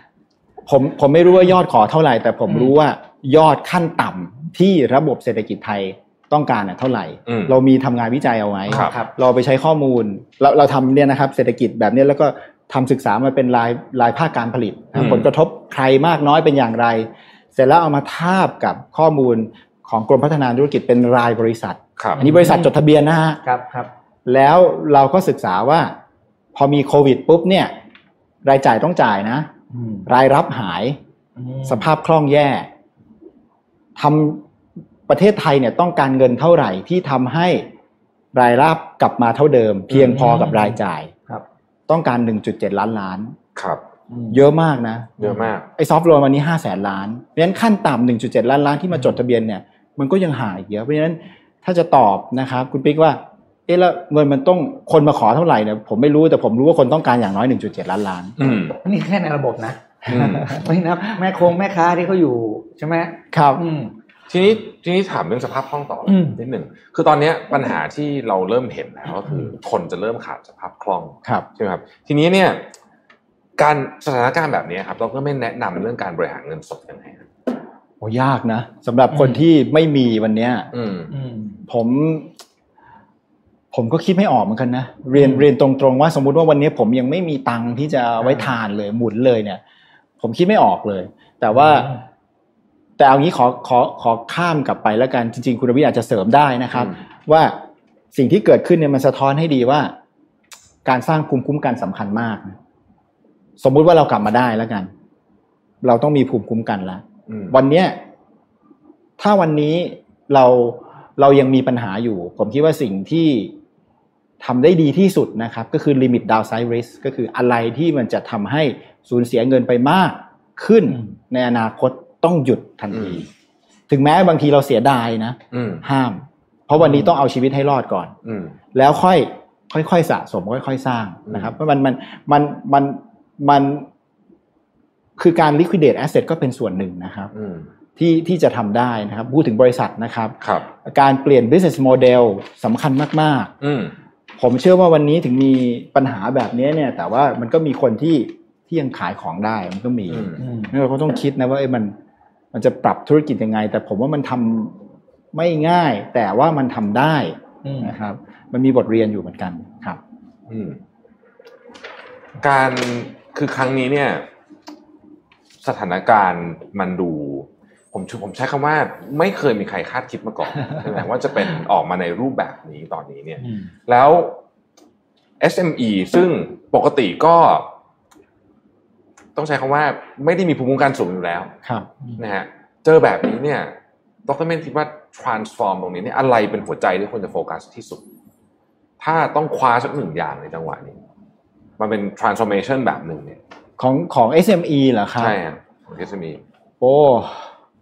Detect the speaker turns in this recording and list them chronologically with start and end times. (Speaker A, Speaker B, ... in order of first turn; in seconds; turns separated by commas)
Speaker A: 0.7-23.4, Speaker B: 7.3-7.5, Speaker C: 8.7-9.1, Speaker B: 14.9-15.3, Speaker C: 22.2-22.7, Speaker C: 23.4-23.9, Speaker A: 24.3-25.9, Speaker A: 26.6-27.7, Speaker A: 28.4-29.5, Speaker C: 29.7-30.1, Speaker A: 30.1-31.0, Speaker C: 31.4-31.9, Speaker A: 31.6-32.7, Speaker A: 34.0-34.4, Speaker A: 35.1-37.7, Speaker A: 38.3-41.1, Speaker C: 39.9-40.8, Speaker A: 41.9-43.4, Speaker B: 43.6-43.8, Speaker C: 44.1-44.4, Speaker A: 44.3-45.2, Speaker B: 45.2-45.7, Speaker A: 45.8-58.4, Speaker B: 58.4-58.8, Speaker C: 58.8-59.8, Speaker A: 60.1-60.6, Speaker B: 60.1-60.6, Speaker C: 60.5-63.9, Speaker A: 63.3-63.6, Speaker B: 64.3-72.6, Speaker C: 66.1-66.4, Speaker B: 73.6-77.3, Speaker A: 78.0-80.7, Speaker C: 79.1-79.4, Speaker B: 80.7-81.1, Speaker C: 81.1-81.6, Speaker A: 81.7-82.3, Speaker A: 83.7-89.6, Speaker C: 85.2-85.5, Speaker C: 88.2-88.5, Speaker A: 90.2-91.9, Speaker C: 91.5-92.0, Speaker A: 93.0-97.6, Speaker A: 98.1-99.9, Speaker A: 100.8-102.6, Speaker A: 103.6-104.9, Speaker A: 105.8-108.0, Speaker B: 107.3-107.5, Speaker A: 109.2-113.5, Speaker A: 114.4-123.3, Speaker B: 122.9-123.2, Speaker A: 123.9-128.2, Speaker B: 125.5-125.8, Speaker C: 126.8-127.1, Speaker B: 128.2-128.5, Speaker A: 128.7-133.9, Speaker B: 131.3-131.5, Speaker A: 135.2-137.3, Speaker B: 137.3-137.7, Speaker A: 138.0-143.5, Speaker B: 140.4-140.7, Speaker B: 143.6-143.9, Speaker A: 144.4-151.9, Speaker B: 150.1-150.4, Speaker C: 150.4-150.7, Speaker A: 152.5-154.8, Speaker A: 155.3-160.0, Speaker C: 157.6-157.9, Speaker B: 160.5-160.8, Speaker B: 162.4-164.2, Speaker B: 165.6-174.4, Speaker C: 173.4-173.7, Speaker B: 175.4-177.7, Speaker B: 179.4-181.5, Speaker B: 182.2-183.7, Speaker B: 184.3-188.0, Speaker B: 189.0-191.0, Speaker B: 191.8-193.4, Speaker A: 193.8-195.4, Speaker B: 195.2-196.4, Speaker A: 196.8-197.4